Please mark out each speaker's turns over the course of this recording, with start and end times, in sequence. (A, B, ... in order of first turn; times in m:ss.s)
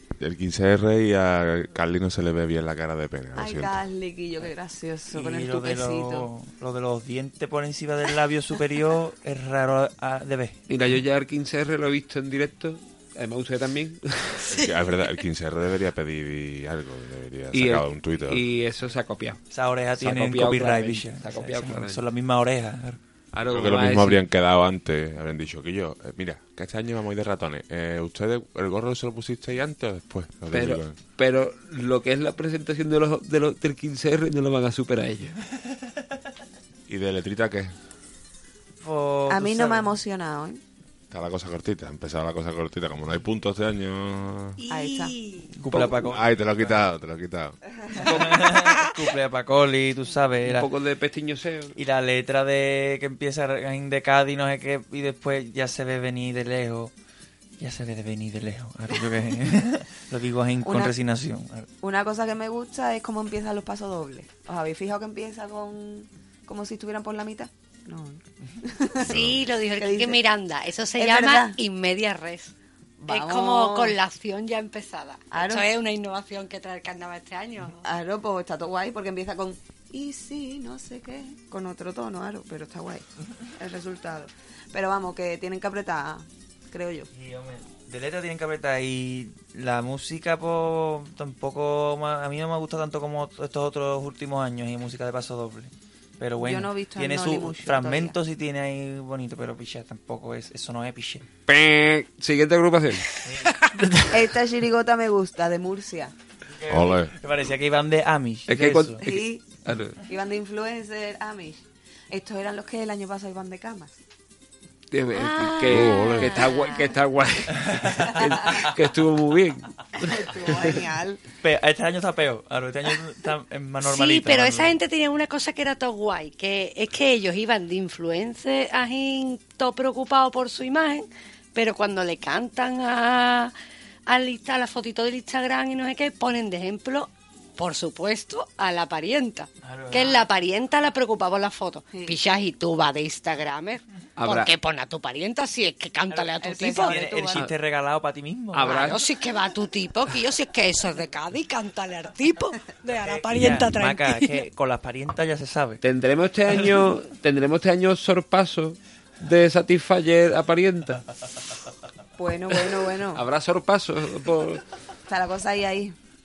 0:00.2-0:03.8 A
0:03.3-0:06.3 B
0:05.1-0:10.6 C
0:10.7-0:14.4 D
0:14.4-0:18.4 A
0:17.5-0:19.4 D
0:19.5-0:23.0 C
0:20.0-0:22.0 D
0:23.3-0:24.2 D
0:23.4-0:30.9 A
0:30.5-0:35.3 D
0:36.9-0:37.7 A
0:38.8-0:39.9 C
0:39.3-0:40.6 B
0:41.1-0:44.6 A
0:44.6-0:45.5 E
0:44.7-0:45.1 B
0:45.5-0:46.8 C
0:45.7-0:47.6 A
0:48.0-0:48.6 D
0:48.0-0:50.7 C
0:48.6-0:48.9 E
0:50.4-0:51.8 D
0:51.8-0:56.9 C
0:57.6-1:01.7 C
1:00.6-1:01.0 B
1:01.8-1:09.2 B
1:09.0-1:09.5 A
1:09.0-1:12.5 E
1:09.8-1:10.2 B
1:11.0-1:11.6 B
1:13.0-1:14.0 B
1:13.1-1:17.8 E
1:15.3-1:15.6 B
1:17.8-1:27.1 B
1:27.1-1:41.2 C
1:36.4-1:38.2 B
1:41.5-1:43.1 D
1:43.2-1:44.1 C
1:44.1-1:46.1 B
1:46.5-1:49.0 C
1:46.7-1:47.1 A
1:48.5-1:50.0 D
1:49.0-1:49.4 B
1:50.0-1:54.0 B
1:54.9-2:00.6 D
1:55.1-1:56.9 E
1:55.6-1:56.4 A
1:56.4-1:56.8 B
1:57.6-1:58.3 C
2:00.0-2:01.2 B
2:01.4-2:04.8 C
2:03.8-2:13.5 E
2:14.1-2:27.0 E
2:19.6-2:20.2 C
2:21.9-2:22.2 B
2:24.2-2:24.5 D
2:26.1-2:27.5 B
2:26.7-2:28.8 C
2:28.5-2:29.0 D
2:28.6-2:34.4 E
2:32.9-2:35.8 C
2:35.8-2:41.0 D
2:42.2-2:43.2 B
2:42.6-2:44.6 D
2:45.1-2:45.9 B